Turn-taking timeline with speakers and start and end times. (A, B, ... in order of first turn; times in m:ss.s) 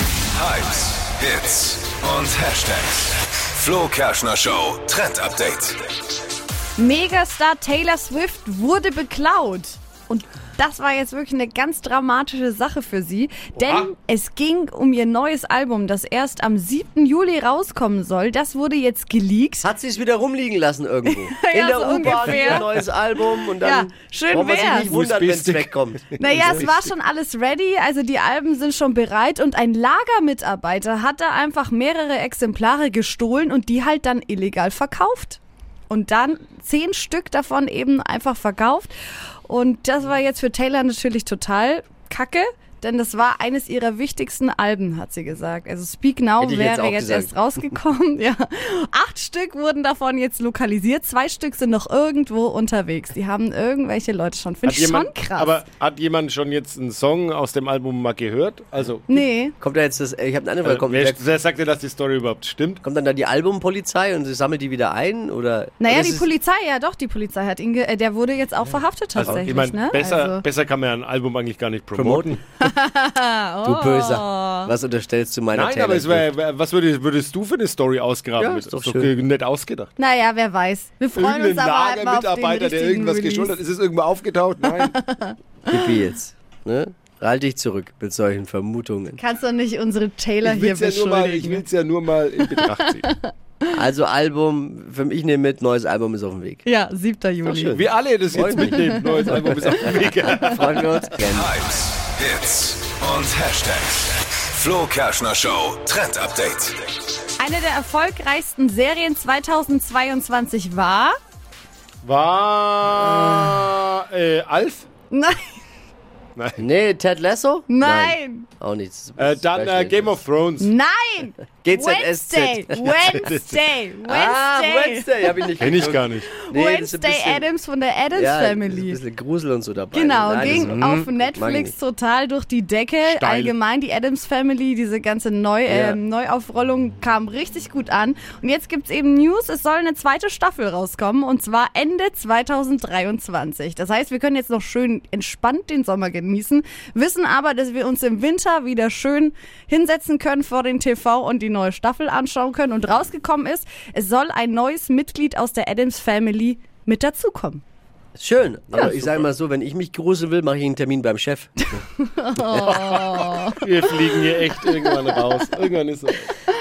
0:00.3-0:05.8 A
0:06.8-0:19.7 B
0:13.6-0:13.9 C
0:19.6-0:26.6 D
0:21.1-0:24.9 B
0:24.8-0:26.8 C
0:26.2-0:35.4 B
0:35.9-0:38.9 B
0:39.5-0:55.6 B
0:46.4-0:47.3 D
0:54.6-0:59.1 C
0:59.1-0:59.6 B
0:59.6-1:01.2 D
1:00.6-1:02.8 C
1:02.8-1:06.3 D
1:05.8-1:10.4 B
1:09.2-1:12.4 C
1:12.0-1:12.4 D
1:12.6-1:14.7 B
1:13.6-1:16.3 D
1:15.5-1:19.9 C
1:18.4-1:19.1 D
1:20.0-1:23.6 B
1:21.2-1:25.0 C
1:24.6-1:25.4 B
1:25.7-1:29.2 D
1:29.2-1:31.6 B
1:30.4-1:33.1 C
1:32.4-1:33.7 B
1:33.7-1:36.6 D
1:36.7-1:37.8 B
1:37.5-1:41.1 C
1:38.3-1:41.5 D
1:38.6-1:40.4 B
1:41.2-1:46.8 A
1:47.4-1:51.2 B
1:52.0-1:54.9 C
1:55.1-1:55.4 B
1:56.4-1:56.6 C
1:56.6-2:00.2 D
1:57.7-1:58.5 B
1:59.2-2:00.7 C
2:00.6-2:05.5 B
2:01.6-2:03.2 D
2:03.1-2:03.6 C
2:04.0-2:07.5 D
2:05.6-2:06.3 C
2:06.3-2:09.0 B
2:08.1-2:11.7 D
2:09.9-2:37.6 B
2:10.5-2:11.0 C
2:13.0-2:13.5 C
2:15.7-2:16.0 D
2:38.2-2:41.7 D
2:42.0-2:43.6 B
2:42.4-2:46.3 C